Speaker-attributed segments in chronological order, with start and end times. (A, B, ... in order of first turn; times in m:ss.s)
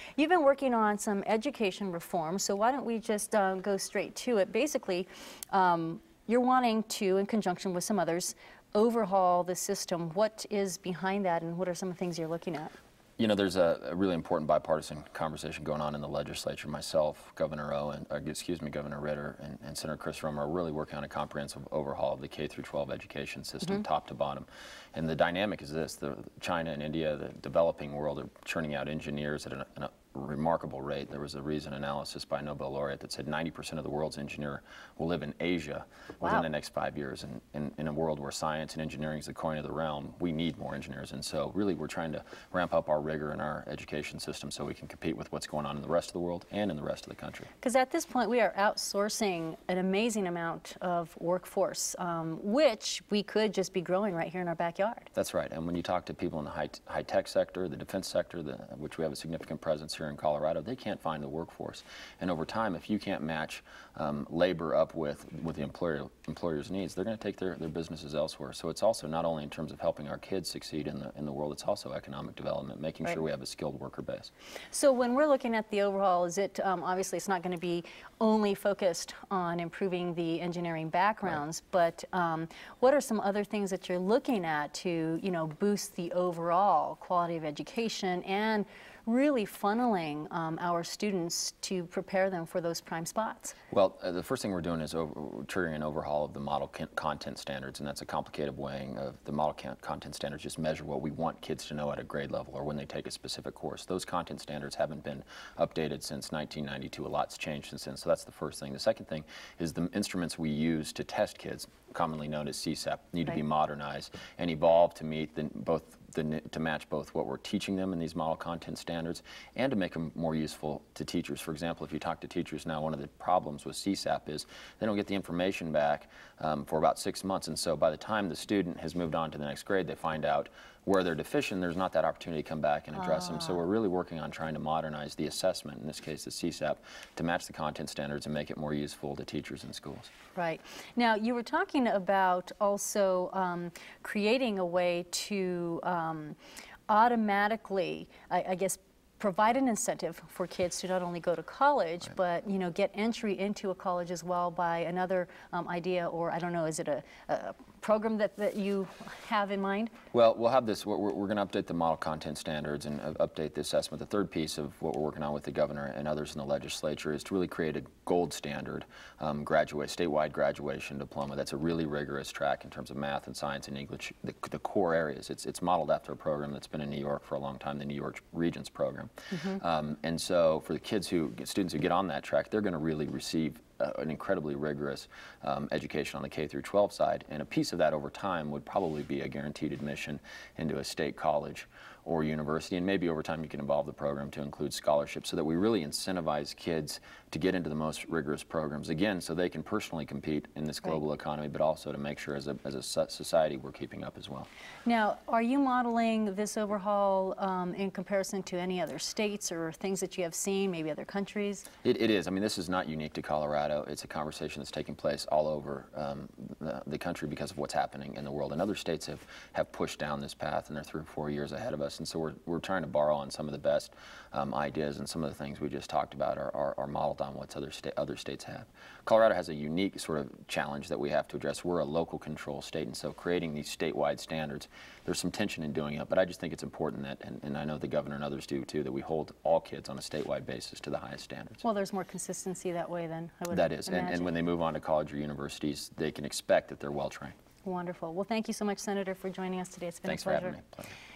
0:00.2-0:12.7 A
0:13.2-0:47.5 B
0:36.2-0:36.5 A
0:47.6-0:55.1 A
0:55.1-1:14.3 B
1:14.7-1:33.6 A
1:33.7-2:20.1 B
2:13.0-2:13.6 A
2:20.3-2:26.4 A
2:26.9-2:39.9 A
2:40.1-3:24.5 B
2:59.3-2:59.6 A
3:24.9-3:31.7 A
3:31.8-4:01.6 B
4:01.6-4:04.3 A
4:03.5-4:07.4 B
4:07.6-4:10.6 A
4:10.1-4:10.9 B